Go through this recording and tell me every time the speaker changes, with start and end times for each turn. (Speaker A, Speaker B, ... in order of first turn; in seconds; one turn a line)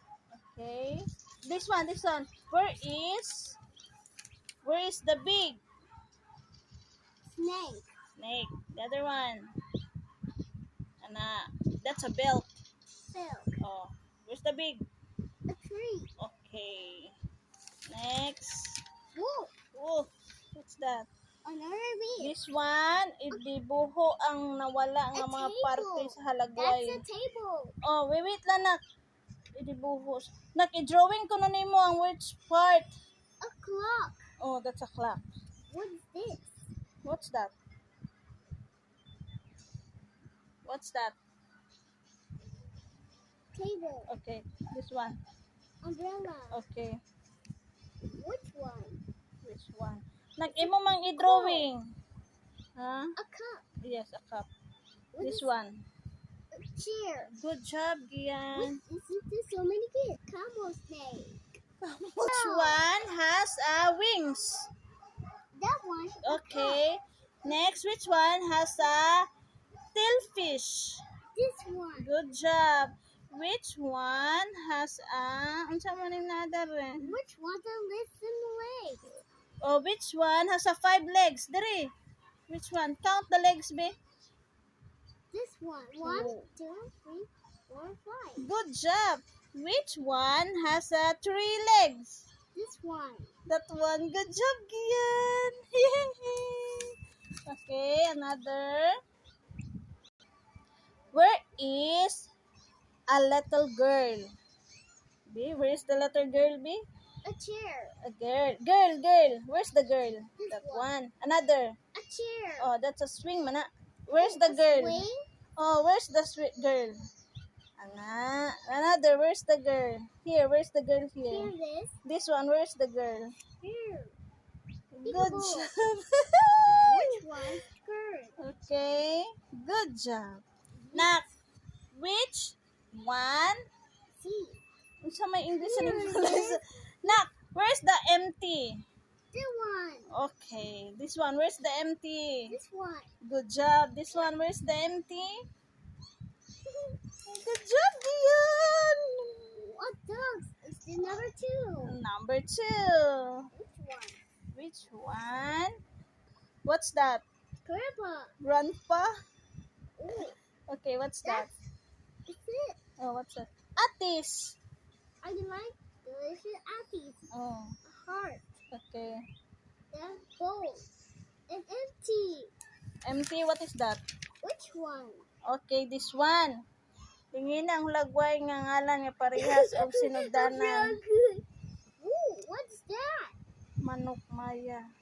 Speaker A: 0.4-3.6
Speaker A: 4.6-5.6
Speaker B: 7.2-7.9
Speaker A: 8.2-9.5
Speaker A: 11.0-12.5
Speaker B: 13.0-13.6
Speaker A: 13.6-14.8
Speaker B: 15.5-16.1
Speaker A: 16.2-17.1
Speaker A: 17.9-18.8
Speaker B: 19.1-19.6
Speaker A: 19.7-21.1
Speaker B: 21.4-22.3
Speaker A: 22.2-27.0
Speaker B: 25.1-27.8
Speaker A: 27.8-28.8
Speaker A: 29.5-32.9
Speaker B: 33.4-34.2
Speaker A: 34.4-35.2
Speaker B: 35.7-36.6
Speaker A: 37.0-37.5
Speaker A: 40.6-41.1
Speaker B: 43.5-44.1
Speaker A: 44.1-45.2
Speaker B: 45.8-46.6
Speaker A: 46.5-47.0
Speaker B: 48.1-49.0
Speaker A: 49.4-51.9
Speaker B: 51.2-51.7
Speaker A: 52.8-53.1
Speaker B: 53.2-53.6
Speaker A: 53.8-54.5
Speaker B: 55.1-55.5
Speaker A: 55.2-55.8
Speaker B: 56.5-57.3
Speaker A: 57.3-58.8
Speaker B: 58.5-61.5
Speaker A: 61.8-64.7
Speaker B: 62.2-62.8
Speaker B: 65.5-66.8
Speaker A: 66.2-69.3
Speaker A: 69.9-71.0
Speaker B: 71.3-72.1
Speaker A: 72.0-77.1
Speaker B: 77.0-79.1
Speaker A: 79.6-81.9
Speaker A: 82.5-84.0
Speaker B: 85.3-88.5
Speaker A: 86.0-86.4
Speaker A: 88.4-92.2
Speaker B: 92.5-93.3
Speaker A: 93.5-96.9
Speaker A: 97.5-99.0
Speaker A: 101.1-102.3
Speaker A: 103.1-104.3
Speaker A: 105.3-106.8
Speaker B: 107.2-108.0
Speaker A: 108.0-111.8
Speaker B: 110.4-110.9
Speaker B: 111.9-112.7
Speaker A: 112.6-115.0
Speaker B: 114.1-115.2
Speaker A: 115.6-117.0
Speaker A: 117.8-121.5
Speaker B: 121.3-122.0
Speaker A: 122.0-123.3
Speaker B: 123.6-124.2
Speaker A: 124.9-126.3
Speaker B: 125.0-125.7
Speaker A: 126.8-127.1
Speaker B: 126.8-128.4
Speaker A: 128.4-131.3
Speaker B: 130.8-131.1
Speaker A: 131.9-133.6
Speaker B: 134.1-134.6
Speaker A: 135.0-138.8
Speaker B: 135.6-136.6
Speaker B: 139.3-140.1
Speaker A: 140.1-142.6
Speaker B: 142.5-143.1
Speaker A: 143.2-145.4
Speaker B: 146.7-146.9
Speaker A: 147.3-149.4
Speaker B: 149.6-151.9
Speaker A: 151.8-153.5
Speaker B: 153.5-154.2
Speaker A: 154.5-155.8
Speaker A: 156.6-157.2
Speaker B: 157.6-158.4
Speaker A: 158.4-159.1
Speaker B: 160.0-160.4
Speaker A: 160.7-161.5
Speaker B: 161.2-161.5
Speaker B: 162.2-162.8
Speaker A: 163.0-164.6
Speaker B: 165.2-167.3
Speaker A: 167.3-167.8
Speaker B: 167.8-168.5
Speaker A: 168.7-169.2
Speaker B: 169.9-170.9
Speaker B: 171.5-172.5
Speaker A: 173.0-174.0
Speaker B: 174.4-175.3
Speaker A: 175.5-176.6
Speaker A: 177.3-181.0
Speaker B: 179.4-181.4
Speaker B: 182.0-183.4
Speaker A: 183.8-184.9